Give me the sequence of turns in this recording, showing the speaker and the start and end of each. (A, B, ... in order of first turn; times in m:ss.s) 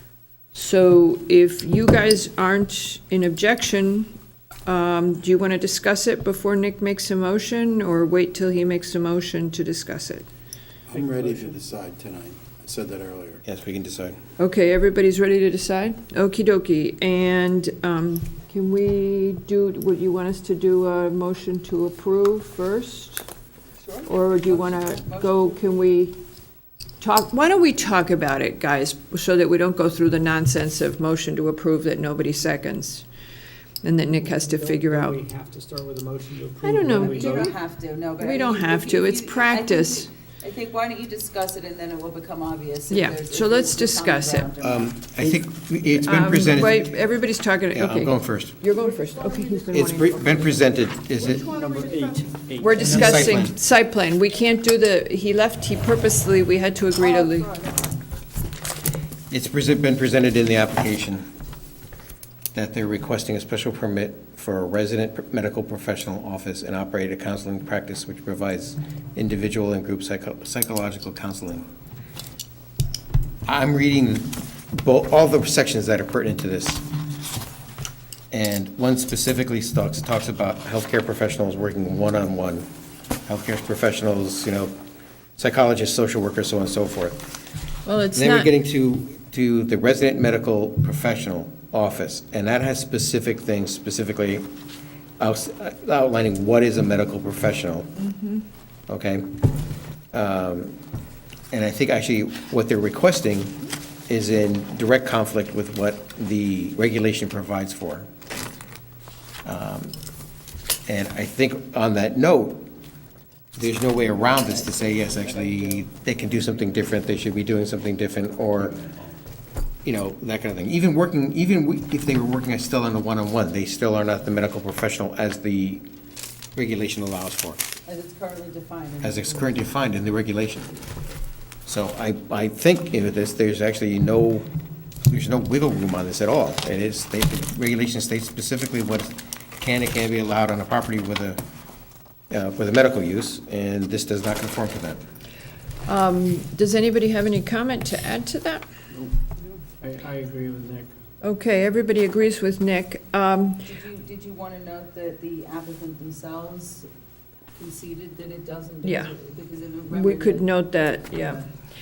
0:00.5-0:04.1 A
0:04.6-0:10.3 A
0:10.9-0:13.4 B
0:10.9-0:11.5 C
0:13.4-0:14.2 D
0:14.4-0:23.2 A
0:23.8-0:25.8 E
0:24.0-0:26.2 A
0:27.0-0:33.0 A
0:33.8-0:35.2 A
0:34.1-0:37.5 C
0:36.6-0:37.6 A
0:36.9-0:45.0 E
0:38.1-0:40.1 A
0:42.9-0:44.5 A
0:44.6-0:45.5 B
0:45.0-0:47.0 D
0:46.0-0:50.5 A
0:47.7-0:48.6 D
0:48.8-0:50.6 C
0:49.7-0:51.5 D
0:51.2-0:53.4 C
0:52.6-0:57.5 A
0:52.8-0:53.5 D
0:57.0-0:57.9 E
0:59.3-1:01.2 D
1:02.5-1:11.6 D
1:13.4-1:16.8 D
1:18.3-1:22.6 D
1:23.2-1:24.7 D
1:25.4-1:27.2 D
1:27.8-1:28.5 A
1:28.1-1:34.5 D
1:35.2-1:37.9 D
1:38.0-1:38.4 A
1:38.9-1:39.4 D
1:40.1-1:40.8 D
1:41.5-1:48.1 D
1:49.4-1:49.9 D
1:50.9-1:52.7 D
1:53.6-1:58.8 D
1:54.0-1:55.9 E
1:58.6-1:59.0 B
1:59.8-2:05.8 D
2:06.5-2:07.6 D
2:07.8-2:09.7 E
2:09.0-2:10.8 D
2:11.6-2:14.5 D
2:15.0-2:21.4 D
2:22.3-2:25.0 D
2:25.8-2:28.6 A
2:29.4-2:30.9 C
2:31.2-2:33.7 A
2:33.6-2:36.9 E
2:37.5-2:40.5 E
2:38.8-2:39.1 A
2:39.9-2:41.4 A
2:41.0-2:41.4 E